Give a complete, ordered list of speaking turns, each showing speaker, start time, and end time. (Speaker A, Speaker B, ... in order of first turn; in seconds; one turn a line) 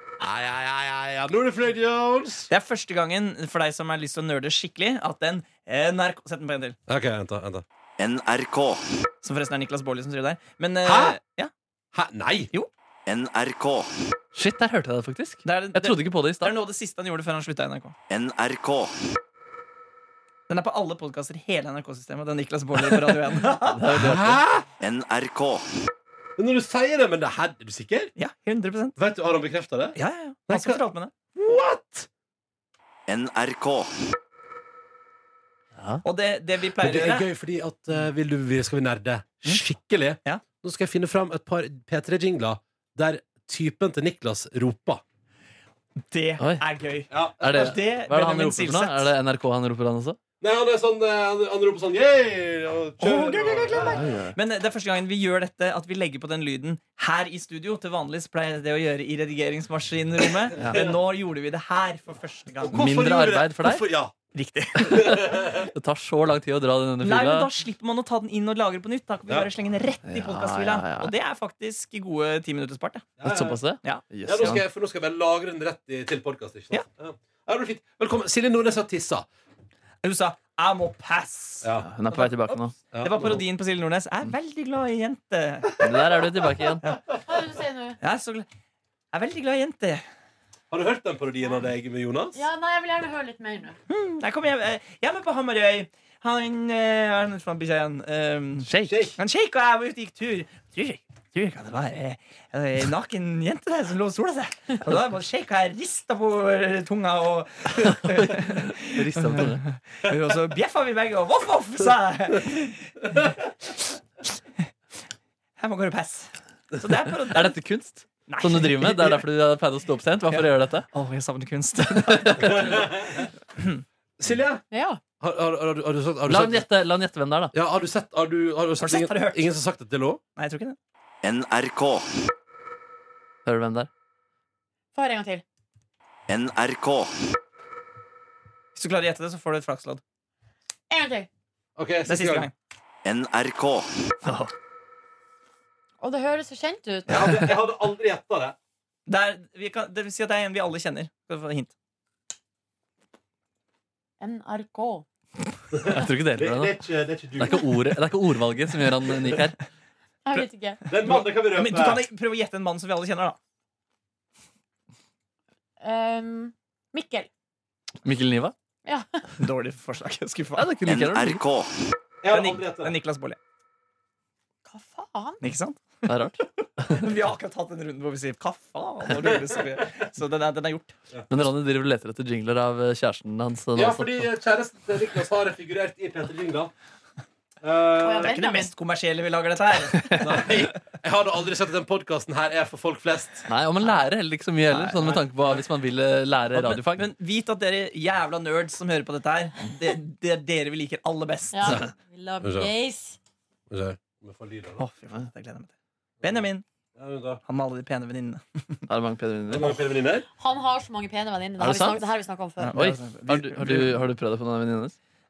Speaker A: 0.2-2.5
Speaker B: 2.5-6.8
Speaker A: 6.9-7.7
Speaker C: 8.0-8.8
Speaker B: 9.2-11.5
Speaker A: 10.8-11.2
Speaker A: 11.9-12.5
Speaker C: 13.1-13.9
Speaker D: 14.3-16.6
Speaker B: 15.4-17.9
Speaker C: 18.1-19.0
Speaker B: 20.5-23.9
Speaker D: 23.7-24.4
Speaker A: 23.9-24.6
Speaker C: 24.8-25.7
Speaker A: 26.4-28.1
Speaker B: 28.2-29.0
Speaker A: 29.0-30.0
Speaker B: 30.0-31.1
Speaker A: 30.5-30.8
Speaker A: 31.4-32.1
Speaker C: 33.1-33.9
Speaker D: 35.8-36.0
Speaker B: 36.0-37.3
Speaker A: 36.8-45.0
Speaker B: 46.1-49.1
Speaker A: 47.1-47.7
Speaker D: 47.4-50.2
Speaker A: 50.4-54.1
Speaker B: 53.0-62.8
Speaker D: 54.0-54.4
Speaker D: 60.6-60.8
Speaker A: 62.6-64.1
Speaker D: 62.7-63.8
Speaker B: 64.3-65.3
Speaker A: 64.8-65.7
Speaker D: 64.8-67.5
Speaker B: 67.0-73.1
Speaker D: 70.1-71.1
Speaker A: 73.2-73.6
Speaker D: 73.2-74.6
Speaker A: 74.2-79.3
Speaker B: 80.0-86.3
Speaker A: 81.6-81.9
Speaker D: 81.8-82.8
Speaker A: 82.9-83.4
Speaker D: 85.8-86.8
Speaker B: 86.8-87.2
Speaker E: 87.2-88.0
Speaker B: 88.0-88.5
Speaker B: 89.1-90.0
Speaker A: 90.7-92.4
Speaker E: 92.3-93.8
Speaker B: 93.9-114.3
Speaker D: 98.6-99.1
Speaker A: 98.9-99.2
Speaker D: 108.1-109.7
Speaker B: 115.6-117.5
Speaker D: 117.3-120.9
Speaker B: 118.3-119.2
Speaker B: 120.3-123.8
Speaker D: 121.9-122.4
Speaker A: 122.4-123.3
Speaker A: 124.2-124.6
Speaker E: 124.7-125.0
Speaker A: 125.2-126.7
Speaker D: 126.3-127.5
Speaker A: 127.5-130.2
Speaker B: 128.8-129.4
Speaker B: 130.4-130.8
Speaker C: 131.2-132.1
Speaker D: 133.4-133.9
Speaker E: 134.9-135.4
Speaker C: 136.3-137.1
Speaker B: 138.8-140.0
Speaker E: 140.9-141.3
Speaker A: 141.8-142.5
Speaker B: 142.1-142.5
Speaker C: 143.1-143.9
Speaker E: 146.0-147.5
Speaker A: 147.1-148.6
Speaker B: 149.1-151.7
Speaker E: 154.2-155.1
Speaker A: 155.7-157.7
Speaker D: 155.8-156.8
Speaker D: 157.4-159.6
Speaker E: 160.2-160.9
Speaker A: 160.9-162.0
Speaker B: 161.0-163.4
Speaker E: 165.8-167.3
Speaker D: 168.0-168.5
Speaker E: 168.8-169.2
Speaker B: 169.4-170.7
Speaker D: 170.6-171.4
Speaker C: 170.9-171.7
Speaker A: 172.2-172.9
Speaker B: 172.3-173.4
Speaker E: 174.7-175.4
Speaker B: 175.4-181.0
Speaker D: 176.1-177.1
Speaker A: 179.2-179.8
Speaker D: 181.3-184.3
Speaker A: 183.8-186.7
Speaker A: 187.6-188.4
Speaker E: 188.0-188.7
Speaker B: 188.2-190.6
Speaker D: 190.1-190.4
Speaker A: 190.2-193.5
Speaker D: 193.5-197.1
Speaker B: 194.7-195.2
Speaker B: 196.5-201.9
Speaker E: 201.5-203.2
Speaker A: 202.4-202.7
Speaker A: 203.7-204.8
Speaker B: 204.8-205.7
Speaker B: 206.2-206.6
Speaker A: 206.2-207.4
Speaker B: 207.5-208.8
Speaker D: 208.9-209.8
Speaker A: 209.5-210.3
Speaker E: 210.4-212.8
Speaker D: 211.6-212.0
Speaker B: 212.6-214.1
Speaker D: 212.7-215.0